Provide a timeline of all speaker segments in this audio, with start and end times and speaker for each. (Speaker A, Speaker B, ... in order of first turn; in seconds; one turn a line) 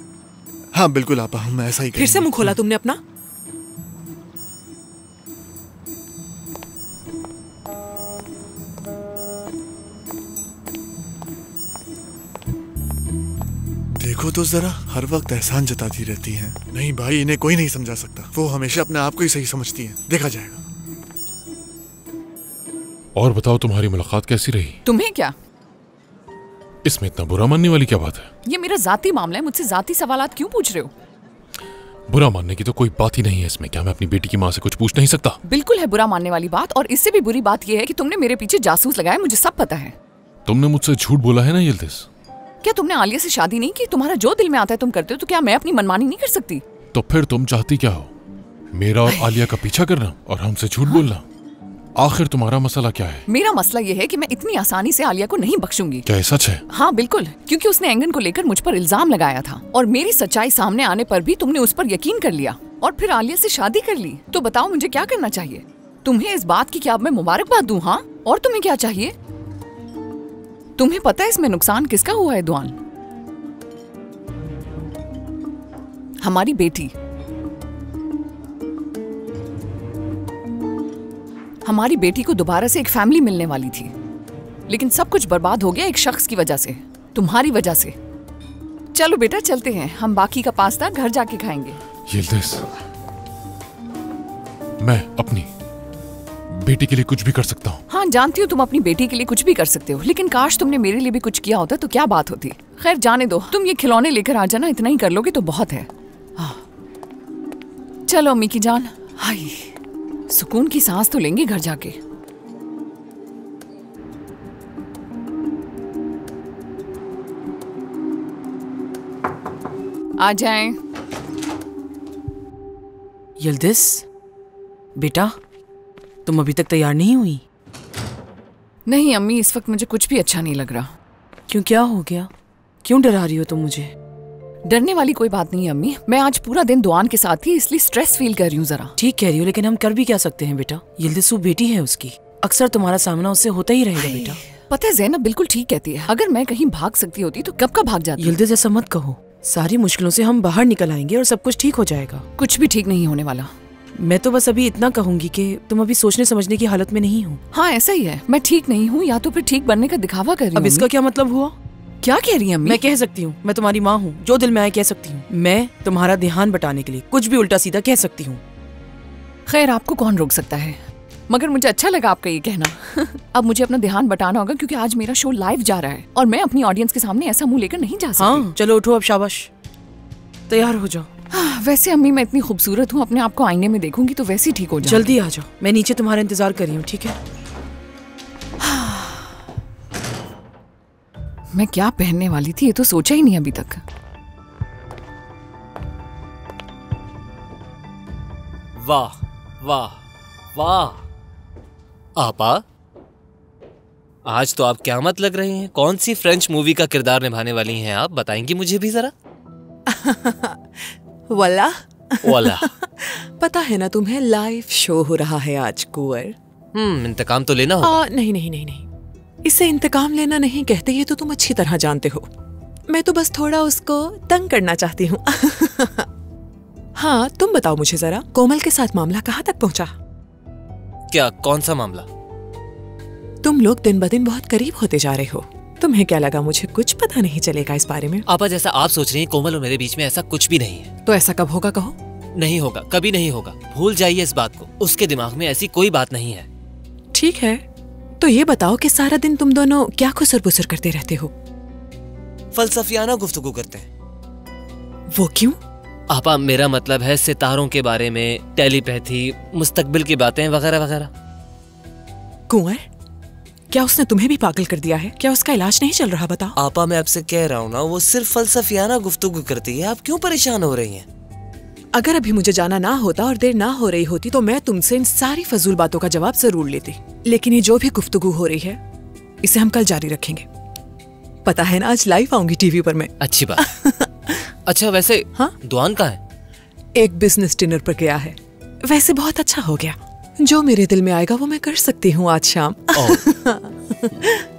Speaker A: 0.7-2.6
Speaker B: 1.9-3.0
Speaker A: 13.9-20.6
Speaker C: 23.2-24.8
Speaker D: 24.9-25.3
Speaker C: 26.9-28.3
Speaker D: 28.5-30.9
Speaker C: 32.1-35.4
Speaker D: 35.5-39.9
Speaker C: 40.5-42.1
Speaker D: 42.6-46.6
Speaker C: 46.9-48.1
Speaker C: 48.7-51.2
Speaker D: 49.1-49.5
Speaker C: 52.0-53.2
Speaker D: 53.3-56.0
Speaker C: 56.1-56.6
Speaker D: 56.7-69.1
Speaker D: 70.8-72.8
Speaker D: 76.2-76.9
Speaker D: 81.7-83.9
Speaker D: 84.7-87.9
Speaker D: 89.0-91.8
Speaker C: 92.1-92.7
Speaker C: 94.8-95.5
Speaker C: 96.5-97.8
Speaker D: 97.9-106.6
Speaker D: 108.1-109.7
Speaker D: 110.3-112.0
Speaker D: 120.2-120.8
Speaker E: 123.4-124.1
Speaker E: 125.0-125.4
Speaker E: 126.3-127.4
Speaker D: 128.9-130.9
Speaker E: 131.5-132.3
Speaker E: 132.8-133.9
Speaker D: 134.7-138.9
Speaker E: 139.0-144.4
Speaker D: 144.0-148.4
Speaker E: 148.2-152.3
Speaker D: 152.4-153.5
Speaker E: 154.0-157.4
Speaker D: 157.5-160.9
Speaker E: 160.6-161.6
Speaker D: 162.0-162.8
Speaker E: 162.6-168.4
Speaker D: 169.5-178.5
Speaker E: 178.2-179.5
Speaker E: 180.5-181.1
Speaker D: 181.3-185.1
Speaker E: 184.8-187.2
Speaker D: 188.6-189.2
Speaker D: 191.5-193.8
Speaker F: 198.8-200.0
Speaker F: 200.6-201.0
Speaker F: 202.2-202.6
Speaker F: 204.3-209.1
Speaker B: 209.9-216.3
Speaker F: 212.2-212.7
Speaker F: 216.8-218.0
Speaker B: 217.8-218.9
Speaker B: 219.4-222.3
Speaker B: 222.9-226.1
Speaker B: 227.0-229.9
Speaker F: 231.1-232.1
Speaker B: 233.4-238.2
Speaker F: 238.3-240.9
Speaker B: 241.1-242.0
Speaker F: 242.3-246.5
Speaker B: 247.1-247.6
Speaker B: 248.2-251.3
Speaker F: 252.5-253.9
Speaker B: 255.1-255.6
Speaker F: 256.1-261.1
Speaker B: 262.5-262.9
Speaker B: 263.7-266.6
Speaker F: 266.6-271.1
Speaker B: 271.9-278.8
Speaker B: 279.4-280.5
Speaker B: 281.4-284.5
Speaker F: 283.2-283.6
Speaker F: 284.7-286.2
Speaker B: 287.0-294.4
Speaker F: 292.9-293.2